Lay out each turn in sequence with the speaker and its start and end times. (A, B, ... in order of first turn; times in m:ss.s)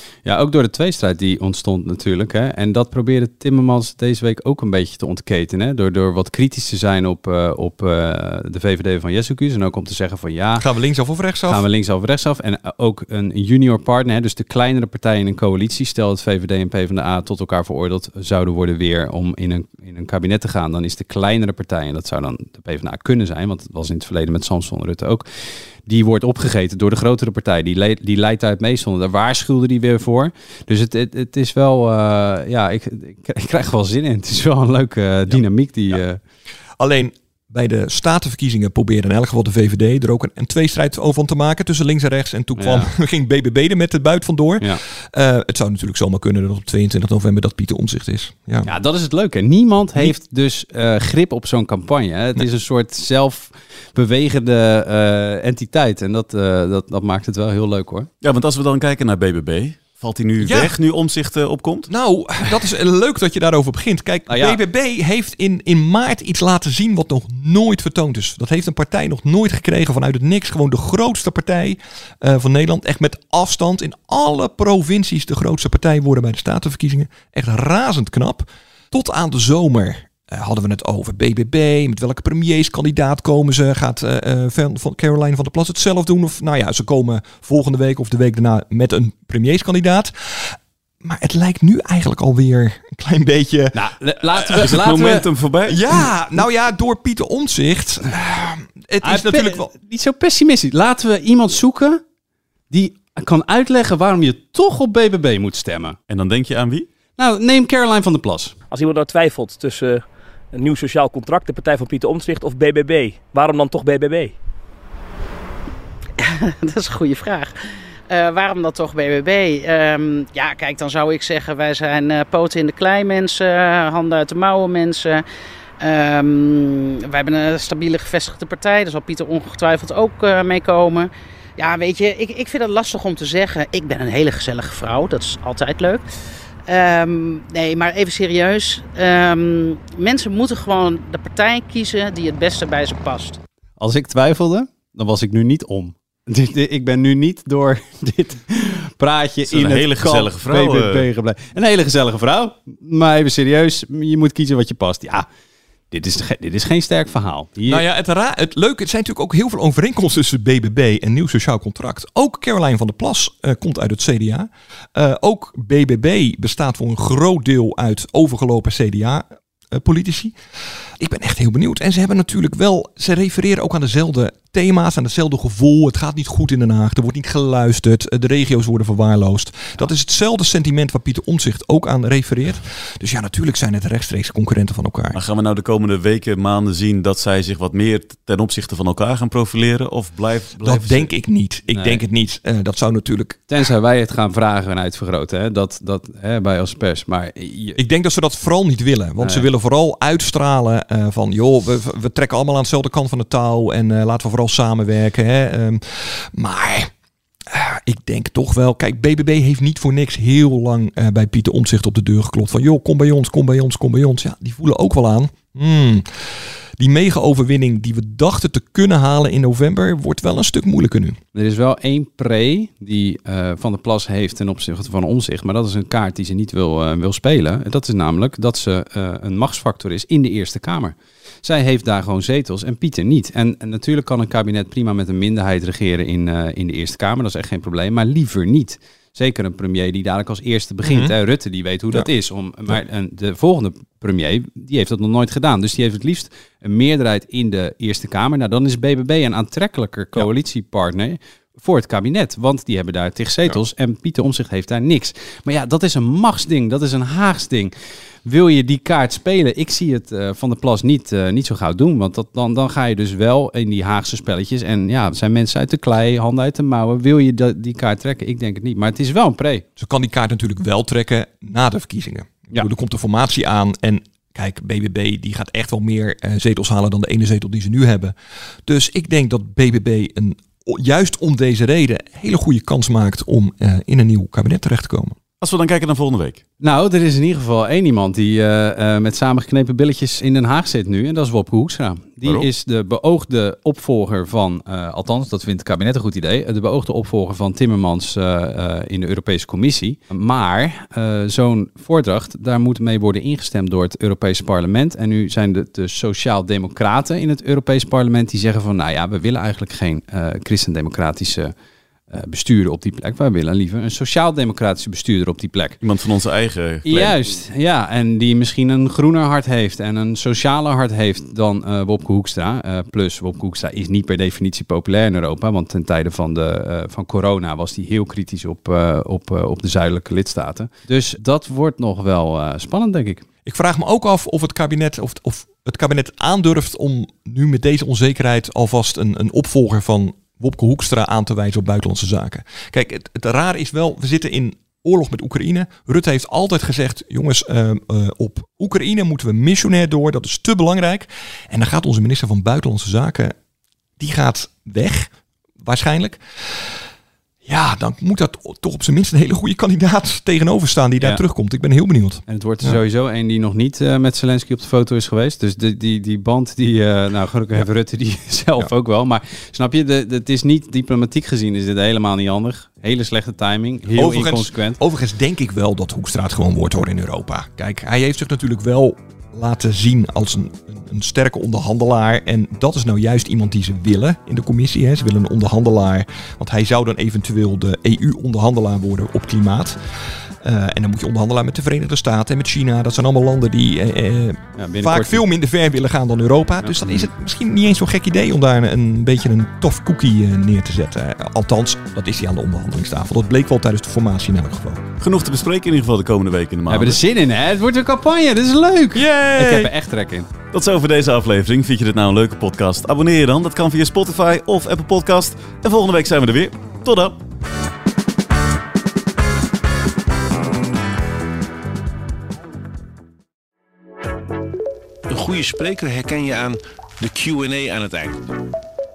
0:00.2-0:10.6 A
0:10.6-0:11.6 B
0:11.5-0:25.2 A
0:25.8-0:36.2 A
0:36.8-0:48.7 B
0:42.6-0:42.9 A
0:48.6-0:58.1 A
0:58.2-1:01.9 C
1:00.4-1:00.7 B
1:01.9-1:33.8 B
1:04.3-1:04.6 A
1:33.7-1:35.3 A
1:34.3-1:34.6 B
1:34.5-1:35.8 C
1:35.7-1:39.7 B
1:39.0-1:42.0 A
1:42.7-1:46.0 A
1:46.1-1:46.9 C
1:47.2-1:48.6 A
1:48.7-1:54.3 D
1:56.2-1:57.5 E
1:58.1-2:05.2 E
2:05.8-2:16.0 E
2:16.7-2:23.4 E
2:23.8-2:35.3 A
2:29.4-2:31.1 C
2:35.9-2:37.8 A
2:37.6-2:50.4 B
2:51.0-3:05.2 B
3:05.1-3:11.1 C
3:10.6-3:13.4 B
3:11.7-3:12.0 A
3:13.5-3:17.8 A
3:17.8-3:26.9 B
3:19.2-3:19.5 A
3:27.5-3:41.2 B
3:41.3-4:17.7 A
4:00.8-4:01.1 B
4:18.2-4:29.6 A
4:29.8-4:38.1 B
4:38.6-4:45.2 B
4:45.4-4:46.4 C
4:46.6-5:11.5 A
5:12.1-5:15.8 A
5:15.8-5:17.2 C
5:16.8-5:33.2 A
5:33.4-5:53.3 B
5:54.0-5:56.8 B
5:57.4-6:02.8 B
6:02.3-6:14.8 A
6:13.9-6:29.8 B
6:30.4-6:44.8 B
6:34.6-6:35.2 A
6:36.6-6:37.0 A
6:45.0-6:47.0 C
6:46.7-6:50.3 A
6:48.9-6:49.7 B
6:50.5-6:57.2 C
7:05.1-7:08.2 F